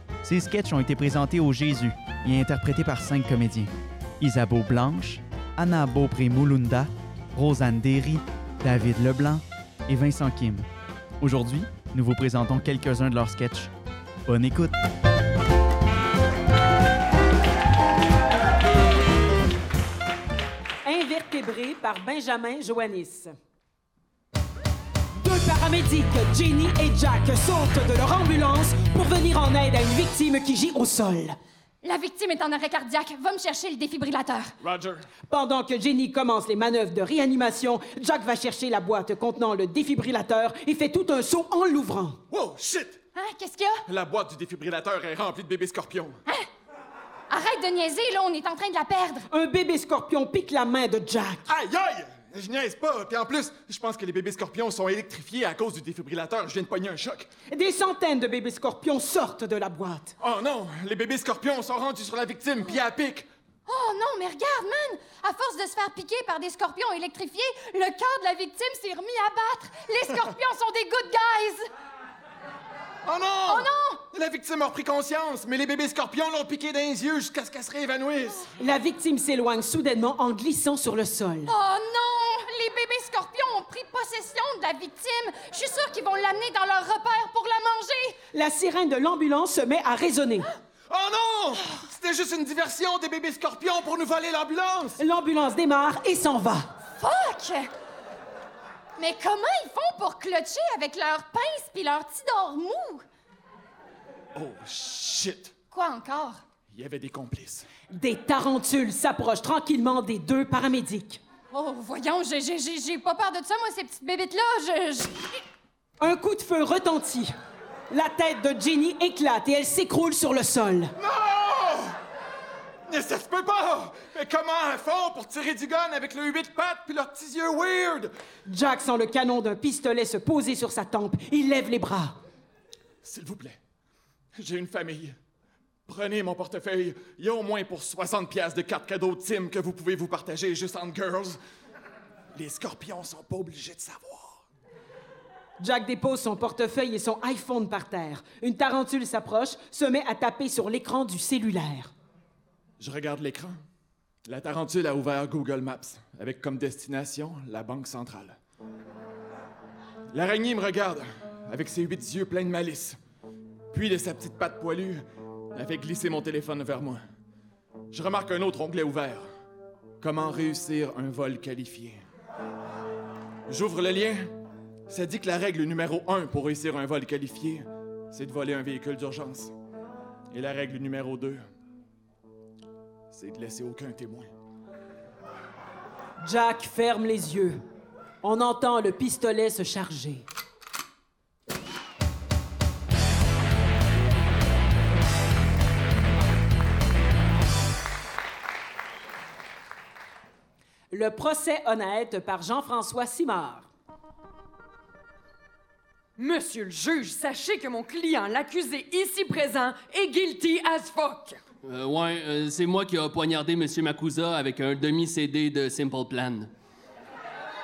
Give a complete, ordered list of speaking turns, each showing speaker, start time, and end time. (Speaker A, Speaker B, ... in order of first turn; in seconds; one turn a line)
Speaker A: 0.2-10.7
Speaker A: 11.2-13.7
Speaker A: 14.3-14.8
Speaker B: 20.9-23.3
Speaker B: 25.2-31.4
Speaker C: 31.8-34.5
Speaker D: 34.6-35.0
Speaker B: 35.3-42.2
Speaker D: 42.3-43.0
Speaker C: 43.2-43.8
Speaker D: 43.9-46.2
Speaker C: 47.3-49.3
Speaker B: 49.3-51.5
Speaker D: 51.5-57.3
Speaker B: 57.5-60.1
Speaker D: 60.2-63.3
Speaker C: 63.7-71.7
Speaker D: 73.0-78.5
Speaker C: 73.5-74.0
Speaker B: 78.6-81.5
Speaker C: 81.5-88.2
Speaker B: 88.3-90.5
Speaker D: 90.9-95.0
Speaker B: 95.0-96.6
Speaker C: 97.0-97.7
Speaker C: 99.0-103.0
Speaker D: 104.3-105.5
Speaker C: 105.7-106.4
Speaker D: 106.7-107.7
Speaker B: 107.9-111.2
Speaker C: 111.5-115.1
Speaker B: 116.0-117.3
Speaker B: 117.9-120.9
Speaker D: 121.0-121.9
Speaker D: 122.9-128.1
Speaker B: 128.5-132.2
Speaker D: 133.0-133.6
Speaker D: 134.4-135.2
Speaker D: 135.9-141.4
Speaker D: 142.4-144.4
Speaker B: 145.6-151.9
Speaker D: 152.8-153.6
Speaker D: 154.3-158.4
Speaker D: 160.1-163.0
Speaker D: 163.7-165.0
Speaker D: 165.5-167.0
Speaker D: 167.9-169.3
Speaker D: 170.0-172.0
Speaker D: 173.5-174.3
Speaker D: 174.9-179.5
Speaker D: 180.3-181.4
Speaker D: 183.1-184.3
Speaker B: 186.2-187.6
Speaker B: 188.2-190.3
Speaker B: 200.9-203.7
Speaker E: 206.2-211.4
Speaker F: 211.6-216.5